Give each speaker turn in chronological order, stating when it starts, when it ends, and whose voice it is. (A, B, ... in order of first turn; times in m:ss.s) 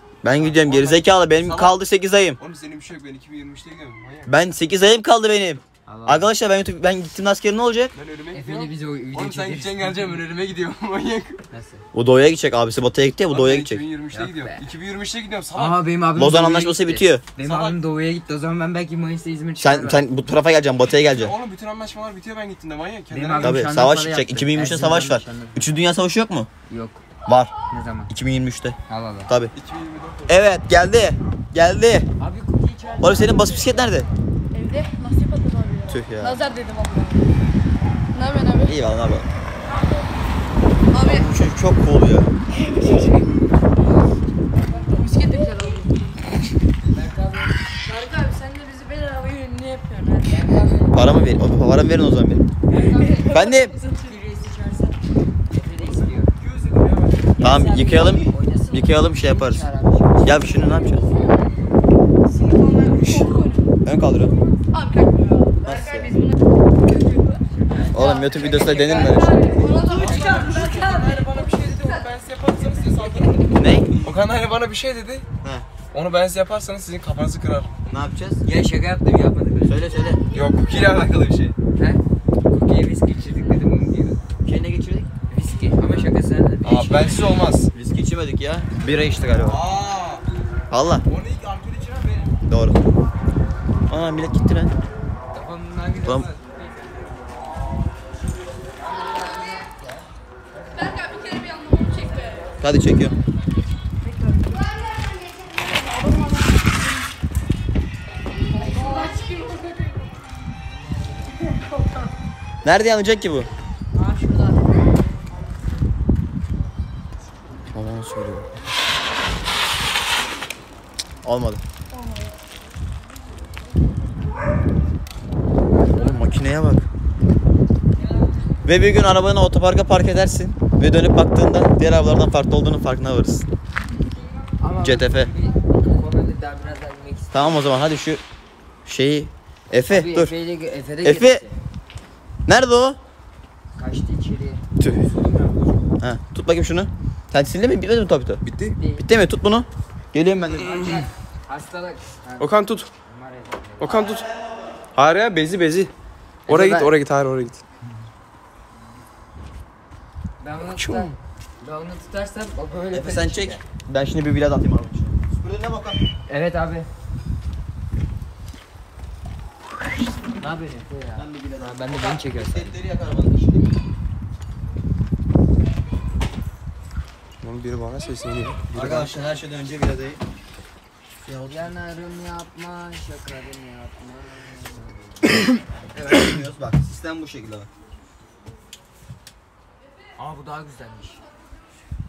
0:00.2-0:02.4 A
0:00.4-0:01.8 B
0:02.4-0:04.3 B
0:04.3-0:07.9 A
0:05.8-0:06.3 C
0:07.9-0:11.4 B
0:08.3-0:10.2 C
0:11.5-0:11.8 C
0:11.9-0:13.8 A
0:13.3-0:15.8 B
0:14.1-0:14.6 C
0:15.5-0:20.0 C
0:16.1-0:17.2 A
0:17.4-0:17.8 B
0:19.6-0:21.3 A
0:21.2-0:23.6 B
0:23.1-0:25.7 C
0:23.4-0:26.5 A
0:26.7-0:27.0 C
0:27.2-0:27.5 A
0:27.7-0:28.1 C
0:28.1-0:28.8 A
0:28.9-0:29.3 C
0:29.3-0:29.5 A
0:29.5-0:30.4 B
0:30.3-0:32.1 A
0:32.2-0:34.0 C
0:33.0-0:34.1 A
0:34.5-0:37.3 D
0:35.9-0:36.4 A
0:38.1-0:38.8 D
0:38.6-0:39.3 A
0:40.9-0:41.3 D
0:40.9-0:42.3 A
0:42.5-0:43.2 D
0:44.5-0:46.2 D
0:46.9-0:47.6 C
0:47.7-0:50.8 D
0:50.3-0:51.0 C
0:50.9-0:52.5 A
0:52.7-0:53.5 C
0:52.7-0:55.0 D
0:53.3-0:53.7 A
0:55.5-0:56.3 C
0:55.8-0:57.3 B
0:57.4-1:01.1 C
0:57.4-0:59.7 A
1:00.2-1:01.0 A
1:02.2-1:03.7 D
1:03.8-1:04.3 A
1:04.7-1:13.5 D
1:05.6-1:06.1 A
1:07.6-1:10.2 C
1:07.9-1:09.4 A
1:08.7-1:15.3 B
1:13.5-1:14.1 A
1:15.4-1:15.7 A
1:15.9-1:17.7 B
1:17.9-1:18.4 A
1:18.4-1:19.8 C
1:19.6-1:20.2 A
1:20.3-1:21.5 B
1:21.7-1:24.3 C
1:24.4-1:25.1 A
1:25.3-1:27.4 C
1:26.6-1:27.7 B
1:27.7-1:29.6 A
1:29.4-1:30.2 B
1:30.7-1:31.0 A
1:31.1-1:32.3 B
1:32.4-1:32.8 A
1:33.9-1:34.7 A
1:35.3-1:37.0 C
1:36.0-1:36.3 A
1:38.8-1:41.1 C
1:40.8-1:42.5 D
1:42.1-1:42.9 C
1:42.6-1:43.2 A
1:44.0-1:44.8 D
1:45.6-1:46.8 D
1:48.5-1:50.1 D
1:48.8-1:49.1 C
1:52.6-1:53.5 A
1:53.9-1:54.9 D
1:57.7-1:58.5 A
2:01.2-2:01.6 A
2:01.9-2:02.3 D
2:05.8-2:06.9 A
2:08.2-2:08.5 C
2:08.6-2:13.5 A
2:14.6-2:17.7 C
2:14.8-2:15.3 A
2:17.3-2:18.2 A
2:18.8-2:20.3 A
2:19.8-2:21.5 C
2:21.0-2:21.4 A
2:22.5-2:23.0 A
2:23.7-2:25.7 C
2:24.8-2:25.1 A
2:26.0-2:28.4 A
2:28.4-2:28.8 B
2:28.8-2:29.0 C
2:29.0-2:31.0 A
2:30.6-2:34.1 C
2:32.4-2:32.9 B
2:33.8-2:34.3 B
2:34.9-2:35.9 B
2:36.4-2:36.9 C
2:36.5-2:37.6 B
2:40.4-2:43.6 C
2:40.7-2:41.1 B
2:42.9-2:46.0 A
2:46.3-2:46.9 C
2:50.4-2:52.8 C
2:51.2-2:53.8 A
2:57.4-2:59.2 B
2:58.7-3:00.2 A
3:01.2-3:01.7 A
3:01.5-3:05.4 C
3:05.9-3:06.4 C
3:06.0-3:07.7 A
3:10.2-3:11.2 C